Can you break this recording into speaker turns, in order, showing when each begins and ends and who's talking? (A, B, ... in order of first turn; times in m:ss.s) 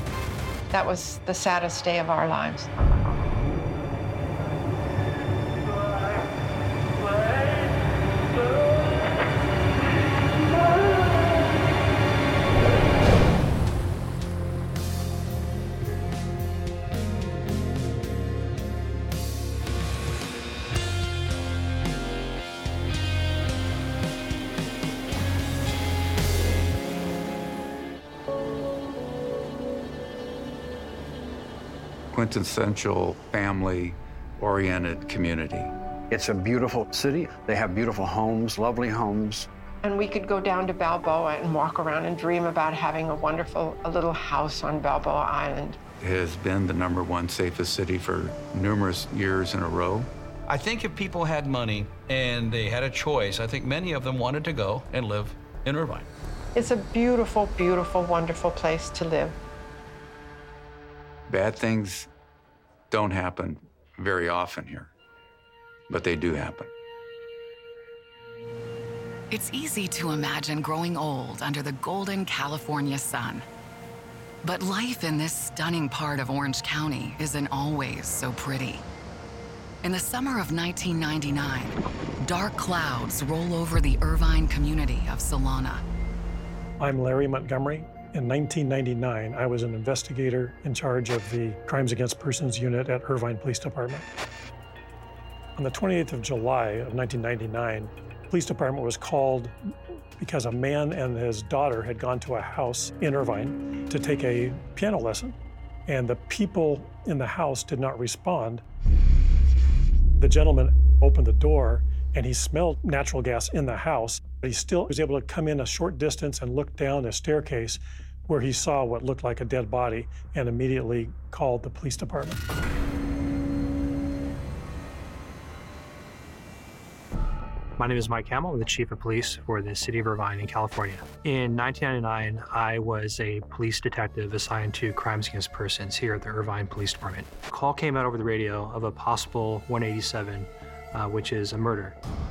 0:00.7-0:02.7 A
0:32.1-0:35.7 B
0:36.1-0:39.5 C
0:39.8-0:45.8 A
0:46.0-0:50.1 B
0:50.5-0:56.1 D
0:56.5-0:59.4 A
1:01.3-1:02.1 B
1:02.9-1:04.9 B
1:05.9-1:06.7 B
1:09.3-1:13.4 E
1:14.4-1:18.8 E
1:19.8-1:25.8 E
1:26.8-1:34.1 F
1:35.6-1:39.5 F
1:40.2-1:48.6 F
1:50.2-2:02.4 F
2:07.8-2:22.0 G